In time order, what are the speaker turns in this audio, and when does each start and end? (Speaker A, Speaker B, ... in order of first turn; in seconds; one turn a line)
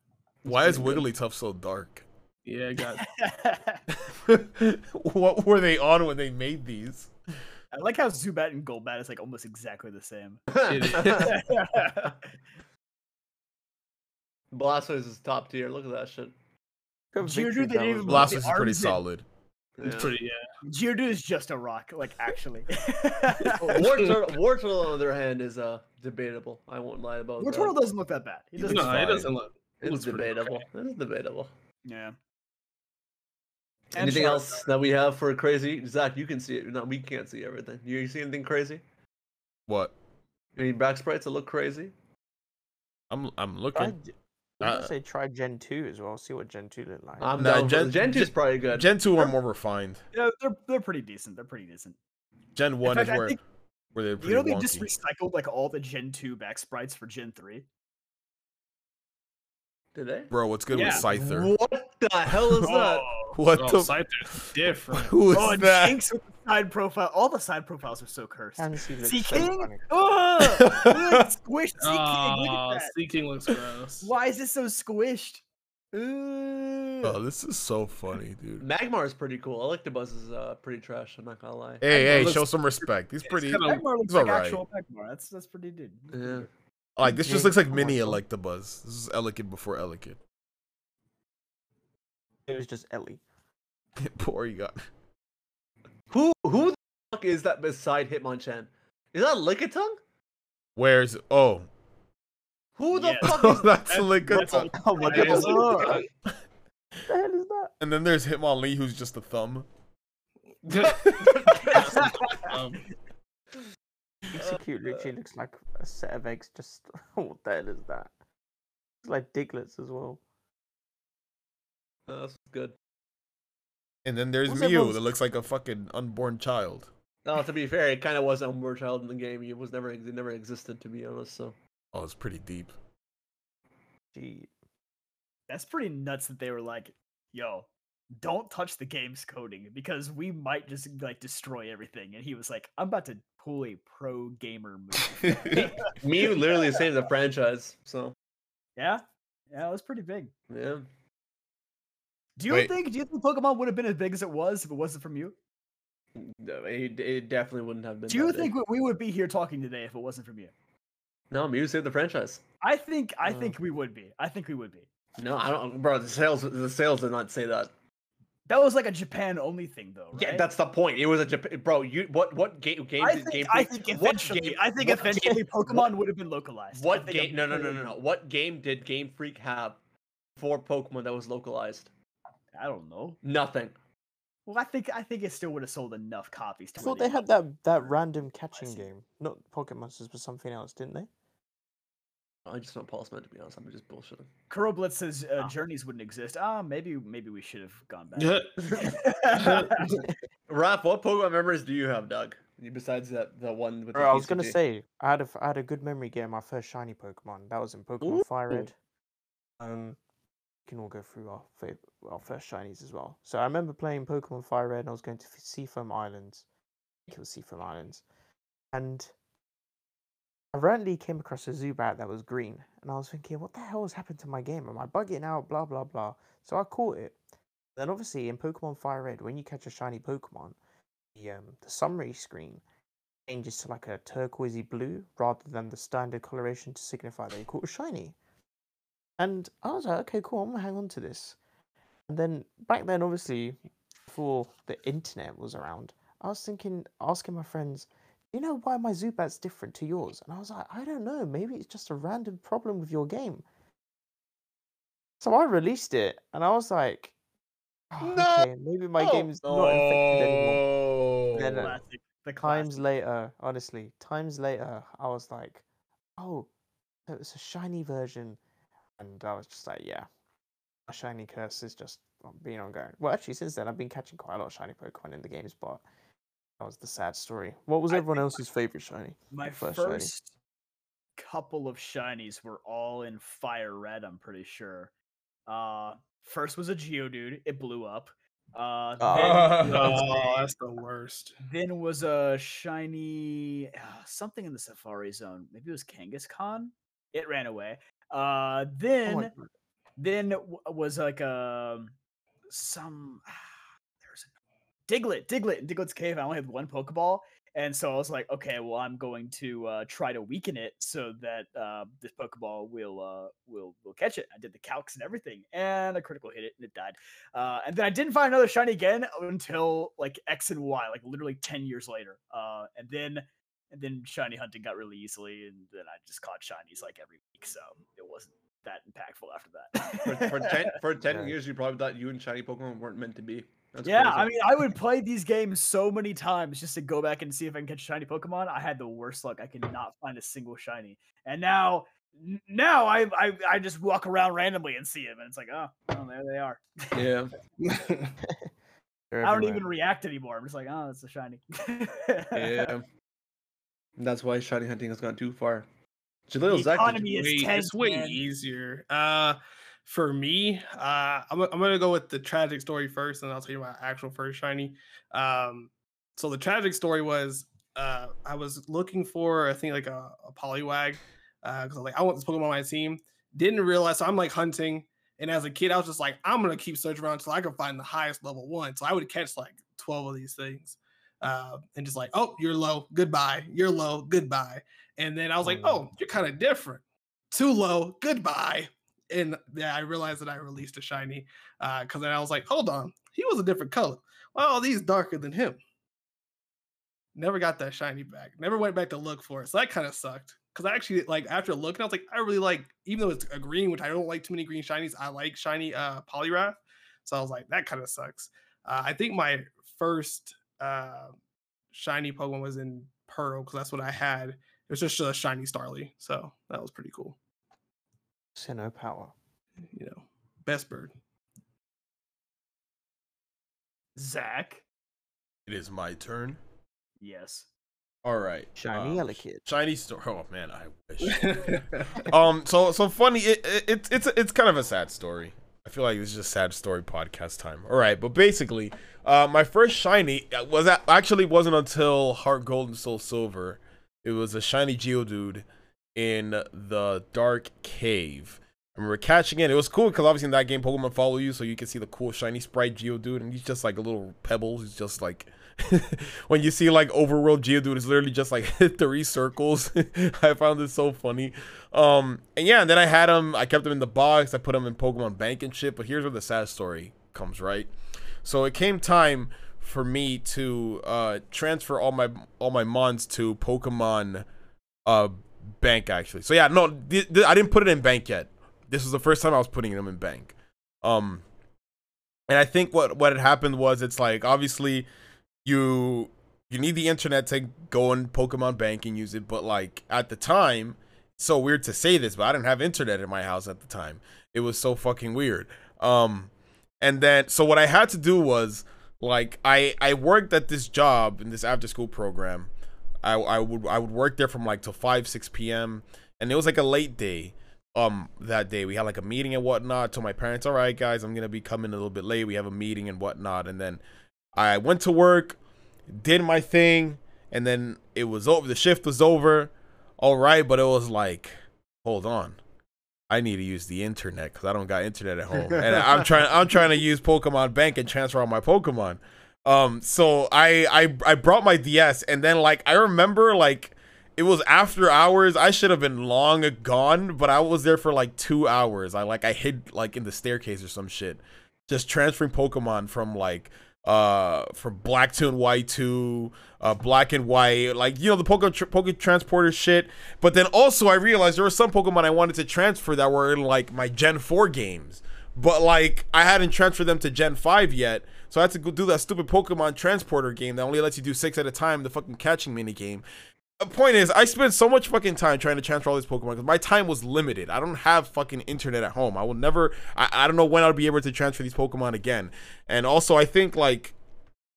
Speaker A: 0.4-1.1
Speaker B: 0.5-2.0
Speaker C: 2.5-3.0
Speaker D: 3.0-3.8
Speaker B: 4.0-7.1
Speaker D: 7.7-12.2
Speaker A: 10.5-11.3
Speaker C: 10.7-11.3
Speaker A: 14.5-16.3
Speaker E: 17.1-18.4
Speaker D: 17.2-19.0
Speaker B: 18.1-19.2
Speaker A: 19.8-20.1
Speaker C: 19.8-20.4
Speaker D: 20.6-23.8
Speaker A: 23.6-27.7
Speaker D: 27.4-29.3
Speaker C: 28.6-30.6
Speaker A: 29.8-31.5
Speaker D: 31.9-32.1
Speaker D: 33.9-34.6
Speaker A: 33.9-38.8
Speaker B: 39.7-39.9
Speaker A: 40.5-41.9
Speaker B: 43.1-44.0
Speaker E: 43.7-47.3
Speaker B: 44.6-44.9
Speaker A: 47.2-48.9
Speaker B: 47.4-50.0
Speaker D: 50.1-52.0
Speaker B: 52.5-53.4
Speaker D: 52.8-53.4
Speaker B: 53.9-54.9
Speaker D: 54.2-57.6
Speaker A: 59.9-63.0
Speaker B: 60.3-61.5
Speaker D: 60.7-61.0
Speaker D: 62.6-63.4
Speaker B: 63.3-66.0
Speaker C: 63.5-65.2
Speaker D: 65.3-72.9
Speaker E: 68.6-69.8
Speaker B: 70.4-71.3
Speaker C: 71.8-74.1
Speaker D: 74.0-75.4
Speaker D: 76.0-77.0
Speaker A: 76.0-76.3
Speaker B: 77.0-78.7
Speaker A: 78.6-81.8
Speaker B: 81.8-84.6
Speaker D: 81.9-82.4
Speaker C: 81.9-82.5
Speaker C: 83.3-83.8
Speaker D: 83.6-86.5
Speaker A: 86.1-86.5
Speaker B: 87.0-90.2
Speaker E: 87.1-88.2
Speaker E: 92.5-93.2
Speaker B: 94.0-94.8
Speaker A: 96.1-100.0
Speaker B: 100.8-101.7
Speaker A: 102.8-104.5
Speaker D: 102.9-106.0
Speaker B: 103.2-105.4
Speaker E: 104.7-106.0
Speaker C: 105.0-106.0
Speaker E: 107.1-107.7
Speaker B: 107.8-109.7
Speaker C: 110.6-112.8
Speaker A: 110.8-111.8
Speaker D: 111.6-112.6
Speaker E: 114.3-118.1
Speaker A: 114.4-115.1
Speaker E: 119.0-120.2
Speaker A: 122.1-122.7
Speaker B: 124.0-126.9
Speaker E: 124.5-125.0
Speaker A: 127.2-131.6
Speaker B: 131.9-132.7
Speaker E: 134.1-134.5
Speaker D: 135.5-146.6
Speaker B: 145.1-145.6
Speaker A: 145.5-148.1
Speaker D: 148.8-150.3
Speaker A: 150.5-150.9
Speaker D: 152.4-155.3
Speaker B: 152.5-152.7
Speaker A: 156.2-158.5
Speaker D: 158.1-160.5
Speaker A: 161.3-162.4
Speaker D: 162.6-164.9
Speaker E: 163.2-163.5
Speaker A: 165.2-167.7
Speaker D: 168.5-170.4
Speaker A: 170.1-175.9
Speaker D: 173.0-177.9
Speaker A: 176.7-179.8
Speaker A: 180.4-181.9
Speaker D: 182.5-183.2
Speaker A: 183.2-183.8
Speaker D: 184.4-187.3
Speaker E: 186.8-191.1
Speaker D: 188.5-188.8
Speaker A: 192.4-194.3
Speaker D: 194.5-199.9
Speaker C: 198.2-198.6
Speaker A: 198.6-204.6
Speaker C: 199.4-199.7
Speaker E: 203.9-208.7
Speaker A: 208.0-208.7
Speaker E: 209.6-210.0
Speaker E: 210.7-216.4
Speaker E: 217.1-218.0
Speaker E: 218.7-219.1
Speaker E: 220.5-227.2
Speaker E: 227.8-230.6
Speaker E: 231.2-232.6
Speaker E: 233.3-238.1
Speaker E: 239.2-241.4
Speaker E: 242.1-243.6
Speaker E: 244.1-253.4
Speaker E: 255.2-257.1
Speaker E: 257.9-260.6
Speaker A: 258.0-258.5
Speaker B: 259.0-261.7
Speaker E: 261.3-261.8
Speaker D: 261.6-262.8
Speaker E: 262.4-265.6
Speaker E: 266.2-266.5
Speaker E: 267.1-268.4
Speaker E: 269.0-270.1
Speaker E: 270.9-275.8
Speaker E: 276.6-280.1
Speaker D: 277.9-278.4
Speaker D: 279.3-280.3
Speaker D: 281.2-284.9
Speaker D: 285.5-290.5
Speaker E: 289.0-289.6
Speaker C: 289.1-291.3
Speaker B: 289.2-289.8
Speaker D: 291.4-299.3
Speaker E: 299.0-299.4
Speaker D: 300.0-301.9
Speaker D: 302.5-304.3
Speaker D: 304.9-330.7
Speaker A: 330.0-334.7
Speaker D: 333.8-347.1
Speaker A: 346.9-347.3
Speaker C: 347.6-348.1
Speaker E: 349.1-349.6
Speaker D: 349.2-352.7
Speaker A: 352.3-352.8
Speaker A: 354.0-355.7
Speaker A: 356.3-357.0
Speaker D: 356.5-358.2
Speaker C: 357.0-395.6
Speaker E: 385.4-385.8
Speaker C: 397.1-411.1
Speaker C: 411.7-417.2
Speaker E: 418.3-419.1
Speaker C: 419.7-420.9
Speaker D: 423.9-424.6
Speaker B: 425.4-426.4
Speaker D: 427.0-427.5
Speaker B: 428.0-467.7
Speaker E: 428.6-429.4
Speaker C: 431.0-432.1
Speaker B: 468.2-474.2
Speaker B: 474.8-481.2
Speaker B: 482.3-484.9
Speaker B: 485.4-502.5
Speaker B: 503.0-513.8
Speaker B: 514.3-515.4
Speaker B: 515.9-522.4
Speaker B: 523.1-563.0
Speaker B: 563.6-573.9